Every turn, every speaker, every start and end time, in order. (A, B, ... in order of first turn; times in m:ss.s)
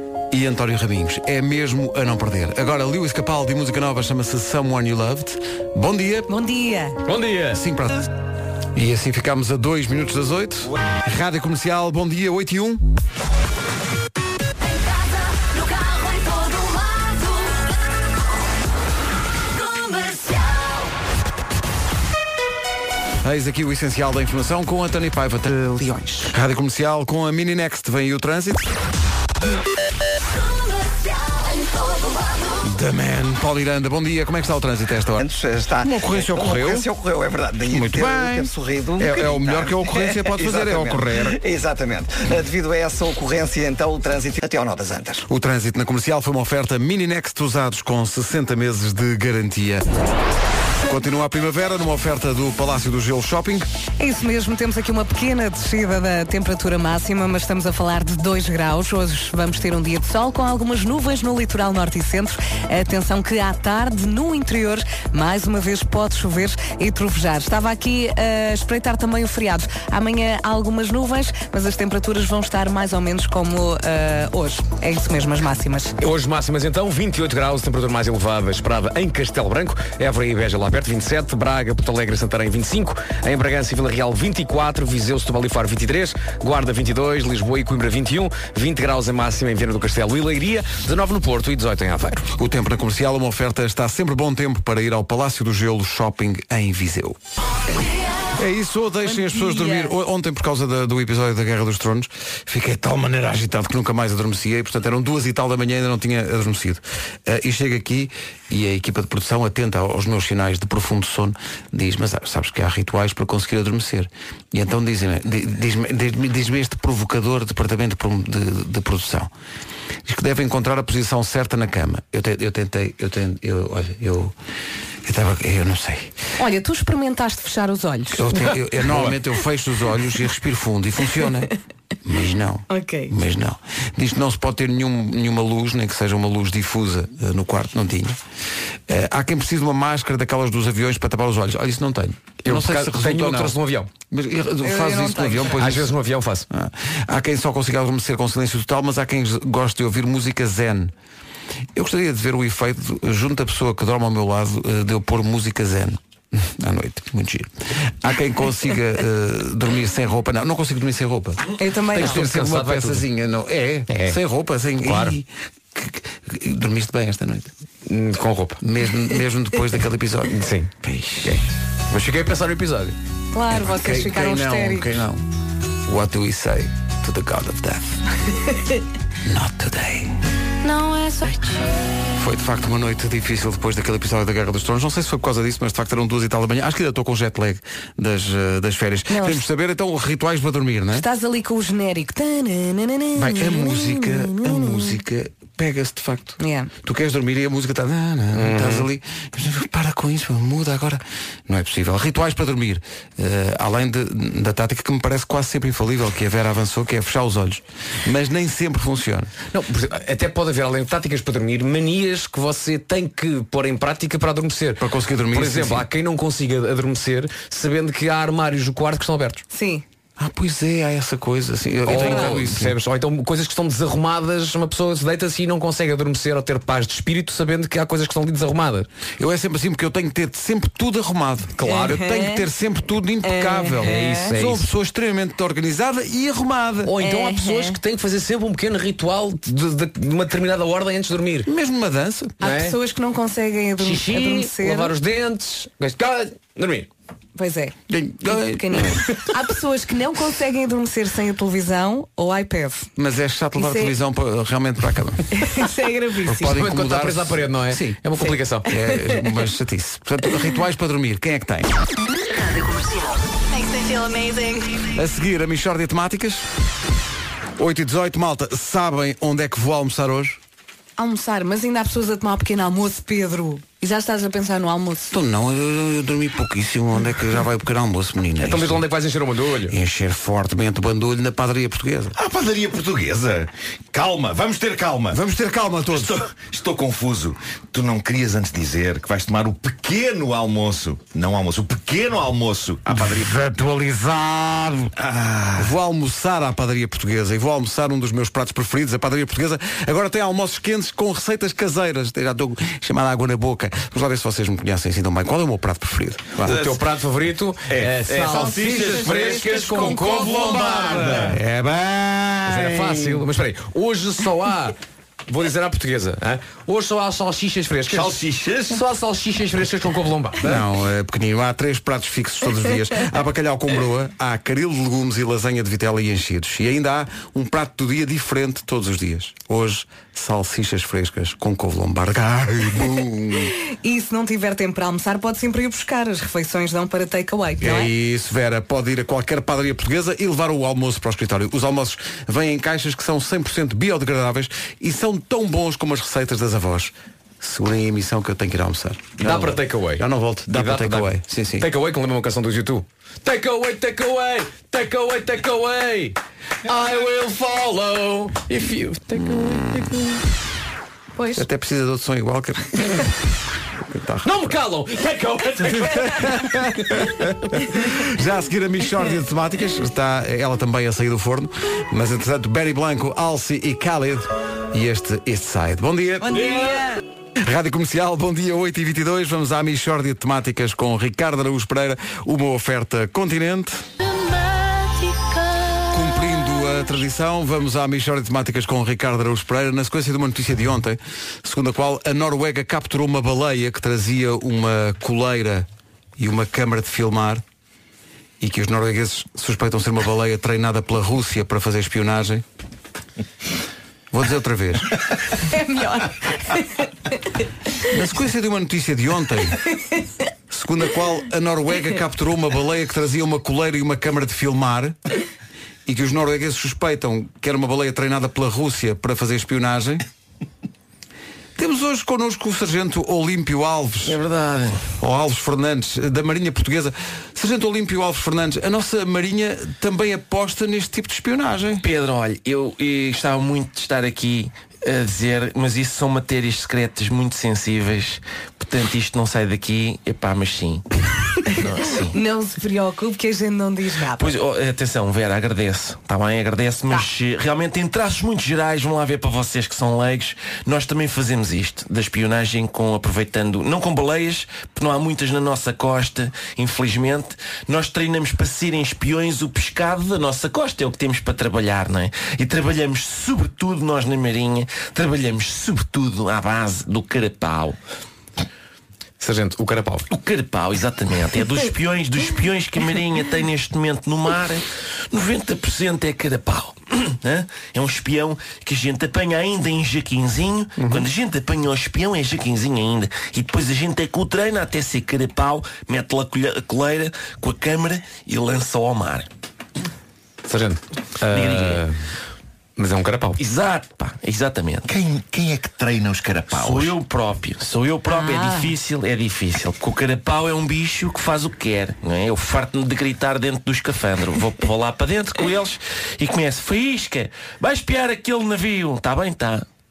0:00.3-0:06.3 A
0:06.3-0:07.0 B
0:07.0-0:07.6 C
0:07.5-0:08.1 A
0:08.7-0:12.8 A
0:14.6-0:18.0 D
0:19.5-0:20.9 D
0:23.2-0:25.7 A
0:26.2-0:28.7 A
0:30.2-0:32.6 D
0:32.6-0:35.2 A
0:35.2-0:45.2 E
0:35.8-0:36.9 A
0:37.7-0:41.4 A
0:45.3-0:49.9 A
0:50.8-0:53.7 A
0:54.0-1:15.9 B
1:16.0-1:32.3 C
1:32.3-1:37.2 A
1:38.3-1:59.3 A
1:39.0-1:39.9 B
2:00.0-2:04.3 A
2:05.0-2:06.2 A
2:06.4-2:08.3 B
2:08.1-2:11.5 A
2:08.5-2:09.2 C
2:12.0-2:18.2 A
2:12.7-2:13.1 B
2:18.9-2:23.6 A
2:22.4-2:23.9 C
2:24.1-2:25.9 A
2:24.6-2:25.6 B
2:25.6-2:26.5 C
2:26.5-2:30.9 A
2:31.7-2:47.5 A
2:41.6-2:42.2 B
2:41.9-2:43.0 C
2:43.9-2:44.2 C
2:44.8-2:45.2 C
2:47.9-2:48.6 C
2:48.6-2:51.4 A
2:50.3-2:50.7 C
2:51.2-2:53.0 C
2:53.3-2:54.9 B
2:53.5-2:55.2 A
2:55.8-2:58.0 A
2:59.2-3:00.2 A
3:00.6-3:01.6 B
3:02.2-3:11.0 A
3:09.1-3:09.4 B
3:10.9-3:15.0 B
3:13.2-3:29.3 A
3:16.4-3:16.7 B
3:18.3-3:18.9 C
3:29.5-3:39.4 C
3:34.8-3:35.9 A
3:39.5-3:39.8 B
3:40.2-3:42.8 A
3:41.8-3:48.9 C
3:41.9-3:42.4 B
3:49.2-3:57.0 A
3:51.6-3:52.0 C
3:51.6-3:52.4 B
3:53.2-3:54.3 B
3:53.8-3:54.7 C
3:56.8-4:01.5 C
3:57.0-3:57.8 B
4:01.4-4:02.4 A
4:02.4-4:04.9 B
4:02.4-4:02.8 C
4:03.8-4:06.9 C
4:07.4-4:07.8 B
4:07.9-4:09.0 A
4:08.3-4:12.9 B
4:13.0-4:15.4 A
4:13.6-4:13.9 B
4:15.4-4:16.6 B
4:16.2-4:18.0 A
4:16.4-4:18.7 C
4:18.6-4:21.7 A
4:22.4-4:24.8 D
4:23.8-4:24.6 B
4:24.9-4:26.4 A
4:27.6-4:30.4 A
4:31.0-4:35.1 B
4:35.1-4:38.8 A
4:38.4-4:39.8 C
4:39.7-4:42.2 A
4:42.1-4:45.2 F
4:45.1-4:46.3 A
4:45.9-4:53.3 F
4:52.9-4:54.9 A
4:55.0-4:55.7 F
4:55.6-5:06.6 A
5:06.4-5:11.4 C
5:06.4-5:06.8 F
5:07.7-5:11.4 F
5:11.2-5:13.0 A
5:12.4-5:14.8 C
5:15.3-5:20.6 C
5:17.9-5:18.8 F
5:20.4-5:33.5 A
5:33.6-5:37.9 B
5:37.6-5:51.7 A
5:49.2-6:00.2 C
5:59.2-5:59.9 A
6:01.2-6:01.4 B
6:01.3-6:03.1 A
6:03.9-6:04.6 A
6:04.2-6:06.8 C
6:05.6-6:16.7 A
6:07.5-6:07.8 C
6:17.4-6:23.8 A
6:24.2-6:25.4 D
6:25.9-6:37.4 A
6:38.4-6:42.4 A
6:44.1-6:44.9 A
6:45.5-6:46.8 B
6:47.9-6:49.6 A
6:50.5-6:55.0 A
6:55.8-7:00.0 A
7:01.6-7:04.2 A
7:04.0-7:04.9 G
7:05.0-7:11.8 A
7:11.8-7:20.8 G
7:21.4-7:22.2 G
7:22.1-7:24.3 B
7:24.2-7:47.8 G
7:49.2-7:50.1 C
7:50.1-8:09.3 G
8:10.4-8:12.0 C
8:11.3-8:11.8 G
8:12.8-8:13.4 C
8:13.4-8:14.9 G
8:14.9-8:16.9 F
8:16.5-8:29.6 G
8:18.1-8:18.7 B